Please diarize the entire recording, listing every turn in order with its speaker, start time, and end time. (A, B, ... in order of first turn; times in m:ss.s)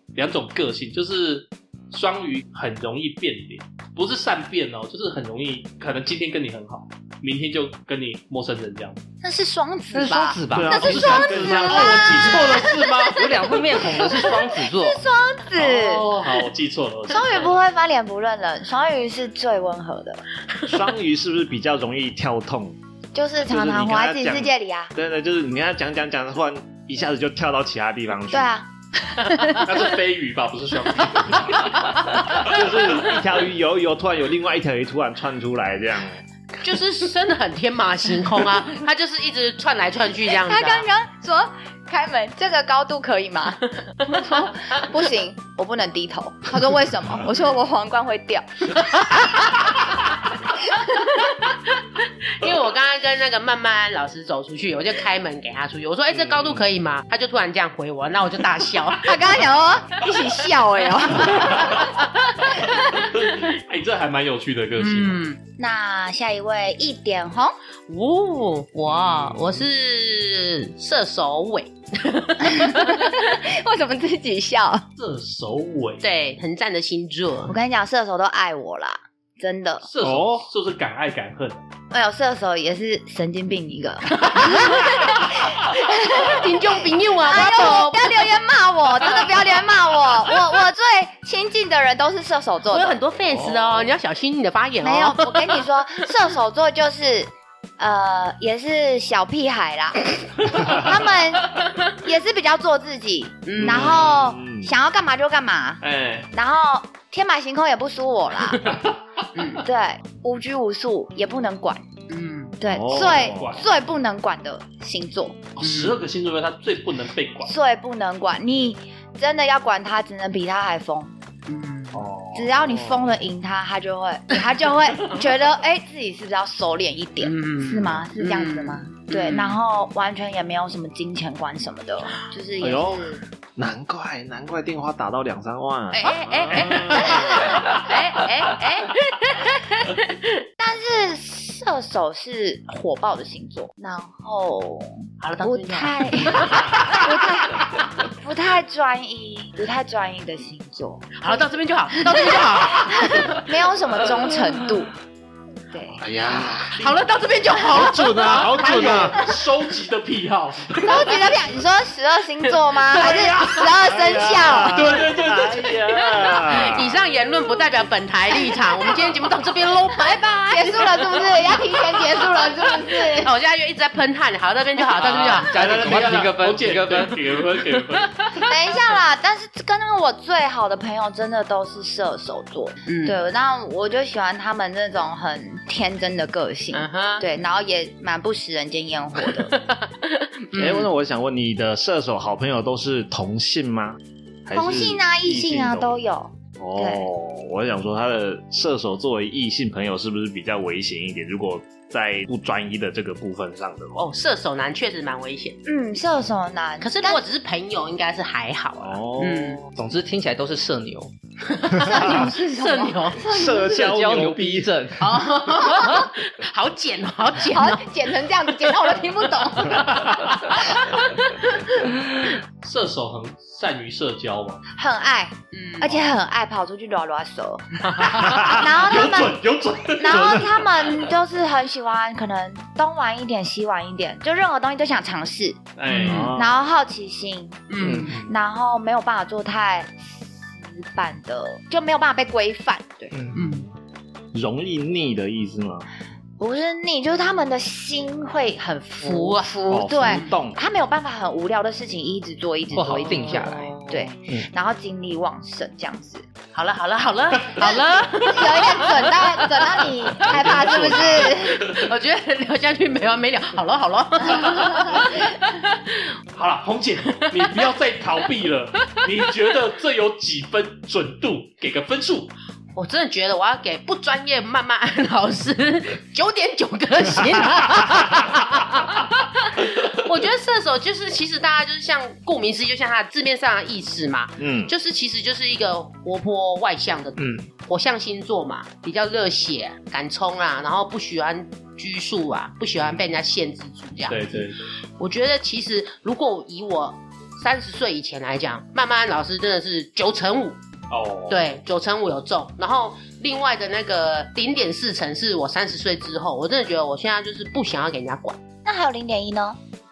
0:00.1-0:09.0 A
0:09.2-0:16.1 B
0:09.9-0:12.2 C
0:10.5-0:11.9 D
0:10.7-0:13.3 A
0:13.1-0:15.0 C
0:15.6-0:17.6 A
0:17.1-0:20.2 B
0:20.7-0:22.8 D
0:23.1-0:24.9 B
0:23.4-0:28.5 D
0:28.3-0:28.7 B
0:29.2-0:29.6 E
0:29.6-0:32.9 A
0:32.4-0:36.2 D
0:36.6-0:40.9 E
0:40.4-0:49.7 B
0:50.7-0:51.2 B
0:51.5-0:59.2 E
0:56.1-0:56.6 A
0:59.0-1:01.9 B
1:01.2-1:01.8 A
1:03.0-1:05.2 A
1:04.8-1:05.4 E
1:05.6-1:07.6 B
1:07.9-1:13.1 E
1:08.9-1:09.6 A
1:12.5-1:14.9 B
1:15.0-1:16.0 A
1:16.0-1:17.6 E
1:17.5-1:19.9 B
1:19.8-1:21.6 A
1:20.0-1:20.5 D
1:21.9-1:33.0 B
1:24.1-1:25.2 E
1:25.7-1:28.3 E
1:32.7-1:35.7 E
1:33.3-1:33.7 D
1:34.8-1:45.8 B
1:43.5-1:44.0 E
1:43.6-1:44.7 D
1:43.8-1:44.2 A
1:45.8-1:46.3 A
1:46.3-1:48.8 B
1:48.6-1:49.0 A
1:49.4-1:49.6 E
1:49.5-1:51.8 B
1:52.1-1:52.6 E
1:52.6-1:55.4 B
1:52.7-1:53.6 D
1:52.9-1:53.7 A
1:55.6-1:57.5 A
1:55.6-1:56.0 E
1:57.4-2:01.1 B
2:01.5-2:02.0 E
2:01.9-2:02.4 A
2:02.4-2:03.1 D
2:02.4-2:13.2 B
2:07.2-2:09.6 E
2:12.6-2:17.4 D
2:15.9-2:20.3 E
2:16.6-2:17.6 B
2:20.6-2:31.4 B
2:25.2-2:27.0 E
2:31.2-2:33.5 E
2:32.1-2:34.9 B
2:35.7-2:36.0 B
2:36.0-2:36.8 D
2:36.8-2:38.9 E
2:37.7-2:39.3 D
2:38.3-2:41.4 A
2:40.8-2:45.0 B
2:43.0-2:43.3 A
2:43.8-2:47.0 D
2:44.7-2:46.3 A
2:46.3-2:55.5 E
2:50.1-2:53.3 B
2:55.0-2:58.3 A
2:55.1-2:57.3 C
2:58.4-3:09.6 B
3:02.9-3:03.2 E
3:06.7-3:07.3 E
3:09.4-3:10.9 E
3:10.5-3:16.0 D
3:14.5-3:17.1 B
3:16.6-3:24.1 D
3:24.0-3:25.6 E
3:25.6-3:27.2 B
3:26.8-3:29.6 E
3:28.8-3:29.7 D
3:29.8-3:31.1 C
3:31.5-3:33.2 E
3:31.8-3:33.8 B
3:33.3-3:34.7 D
3:33.5-3:35.2 C
3:35.0-3:37.9 E
3:37.4-3:40.2 B
3:38.7-3:39.0 E
3:39.6-3:41.9 E
3:42.6-3:44.6 A
3:44.8-3:49.4 B
3:45.5-3:46.0 E
3:47.8-3:48.6 E
3:48.4-3:51.1 A
3:50.0-3:55.6 B
3:55.8-3:56.3 A
3:55.9-3:56.3 E
3:56.0-3:56.6 D
3:56.3-4:03.1 B
3:57.7-3:58.2 E
3:57.8-3:58.2 C
4:03.1-4:03.4 C
4:03.3-4:03.7 E
4:04.3-4:05.9 D
4:06.4-4:16.2 B
4:09.0-4:10.3 E
4:09.7-4:10.6 D
4:12.7-4:14.5 C
4:13.1-4:14.1 E
4:16.5-4:19.9 E
4:17.6-4:21.6 B
4:20.3-4:21.8 A
4:20.3-4:21.2 D
4:21.1-4:26.0 E
4:26.4-4:32.3 A
4:32.8-4:54.5 E
4:44.4-4:44.7 D
4:47.2-4:47.5 C
4:54.1-4:54.7 A
4:55.0-5:00.6 E
5:00.9-5:01.4 A
5:01.3-5:08.4 E
5:08.6-5:09.6 B